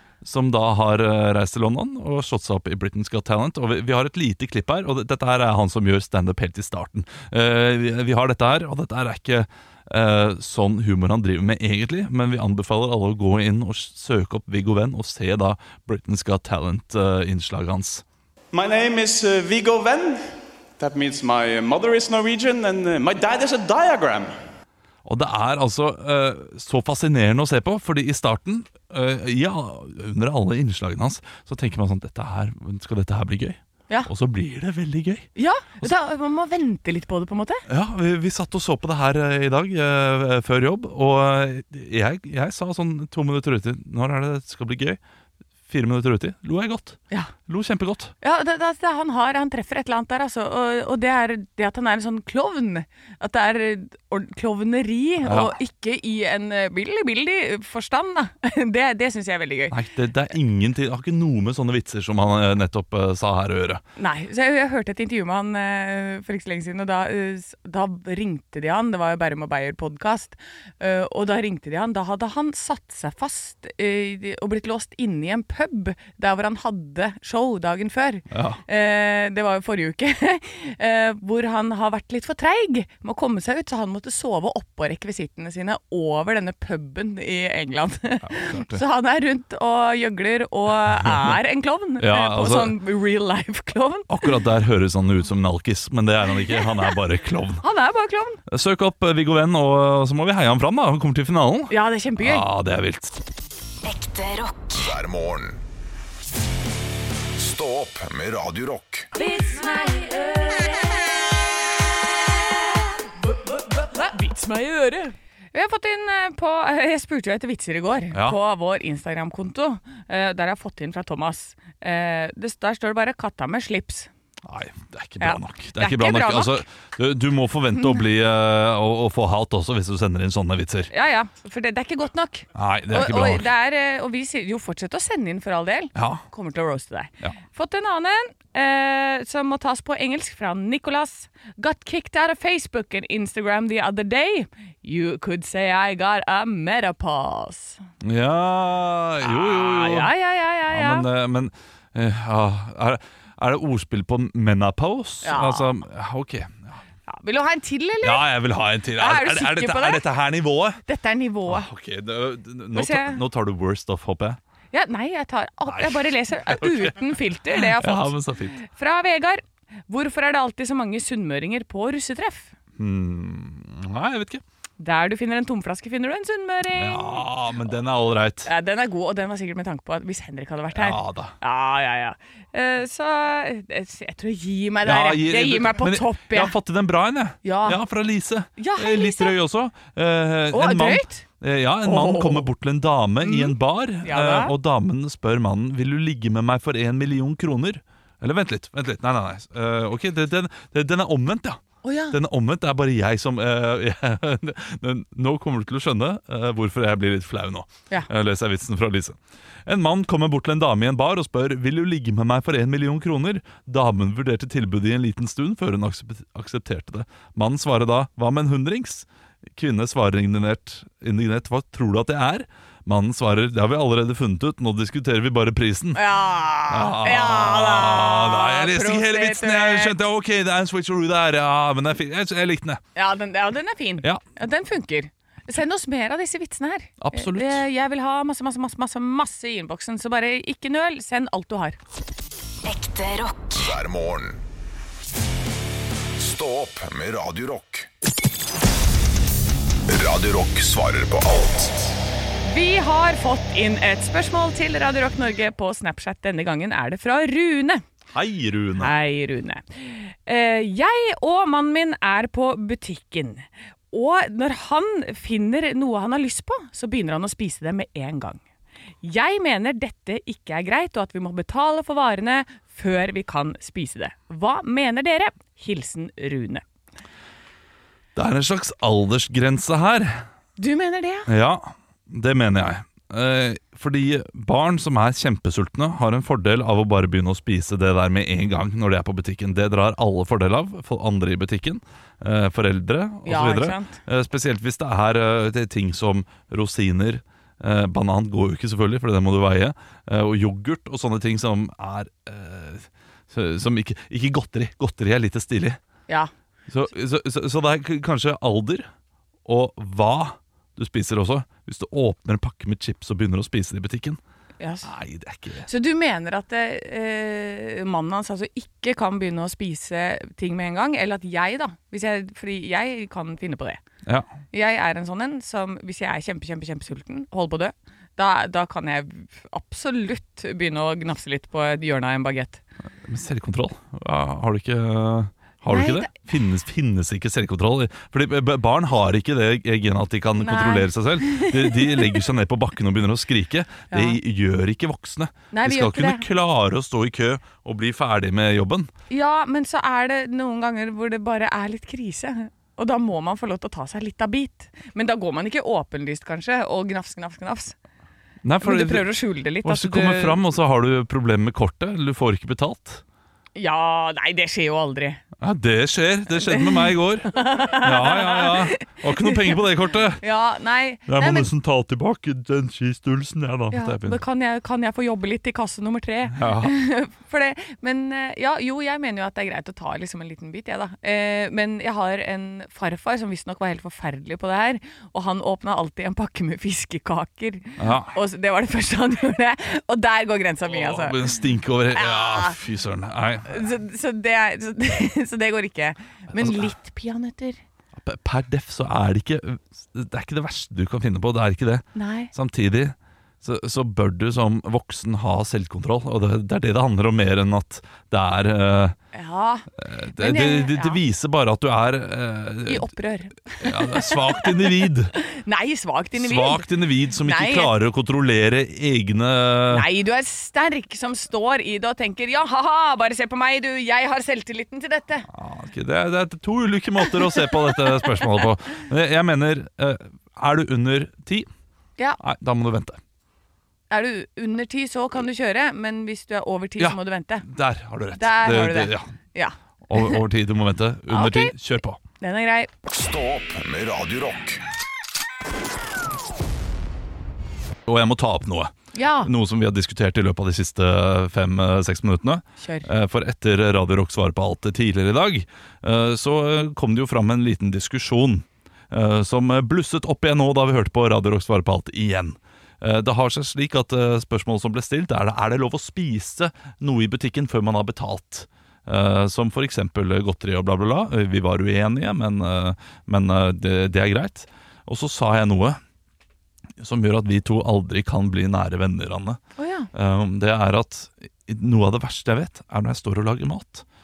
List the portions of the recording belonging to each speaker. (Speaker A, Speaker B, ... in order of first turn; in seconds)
Speaker A: 0.2-18.0, 25.1-35.3, 37.7-45.0, 45.7-48.1, 55.2-55.5, 59.7-63.8, 78.3-78.6, 88.2-88.8, 91.0-91.4, 92.0-92.8, 94.1-97.6, 98.5-103.1, 124.5-130.9, 132.6-133.5, 136.0-136.2, 148.0-150.1, 150.7-156.8, 158.0-160.8, 161.5-164.4, 165.7-166.9, 167.5-168.6, 172.8-174.4, 176.7-178.5, 180.7-181.3, 184.8-201.6, 202.1-226.0, 226.7-232.8, 237.0-237.6, 258.1-258.9, 278.2-280.2, 281.3-305.8, 306.7-308.9, 309.4-314.2, 314.8-315.7, 333.0-348.9, 358.4-359.1, 359.6-363.0, 365.4-370.2, 371.1-374.2, 376.4-376.7, 387.8-388.1, 390.7-393.7, 396.4-396.7, 398.0-409.0, 409.8-412.9, 413.6-415.1, 416.2-419.9, 425.3-431.5, 432.2-433.0, 436.8-439.1, 439.9-442.0, 447.9-475.8, 476.8-479.4, 479.9-483.9
Speaker B: 18.5-24.3
Speaker C: 35.4-37.6, 48.2-59.8, 64.0-94.3, 96.3-96.7, 97.6-98.4, 101.7-102.5, 109.2-111.1, 113.6-124.1, 125.2-126.6, 130.9-147.8, 149.2-151.1, 155.2-155.7, 157.1-158.3, 159.0-160.0, 160.9-161.7, 162.7-163.2, 164.7-172.5, 174.8-177.2, 178.5-186.6, 187.4-187.8, 188.6-189.3, 190.5-191.2, 191.8-192.5, 193.2-194.5, 201.8-202.2, 225.9-230.0, 233.0-241.8, 252.4-257.8, 258.8-268.4, 269.0-276.6, 280.6-281.3, 293.3-293.9, 314.6-314.9, 315.7-323.8, 324.5-332.6, 335.7-336.1, 340.4-342.2, 343.9-344.2, 345.5-346.2, 349.1-357.8, 358.6-360.4, 363.6-365.2, 366.4-369.6, 370.2-371.5, 373.7-391.3, 391.9-392.6, 393.5-397.6, 402.0-402.3, 409.1-411.0, 412.7-414.5, 415.2-416.7, 417.2-417.7, 419.7-425.3, 433.9-437.5, 438.2-440.2, 441.1-441.5, 442.2-442.7, 448.9-449.3, 452.6-452.9, 479.6-479.9
Speaker D: 103.8-104.8, 242.6-243.6
Speaker E: 104.8-105.6, 107.3-109.1, 243.6-244.4, 246.2-247.9, 249.9-251.9, 442.9-444.6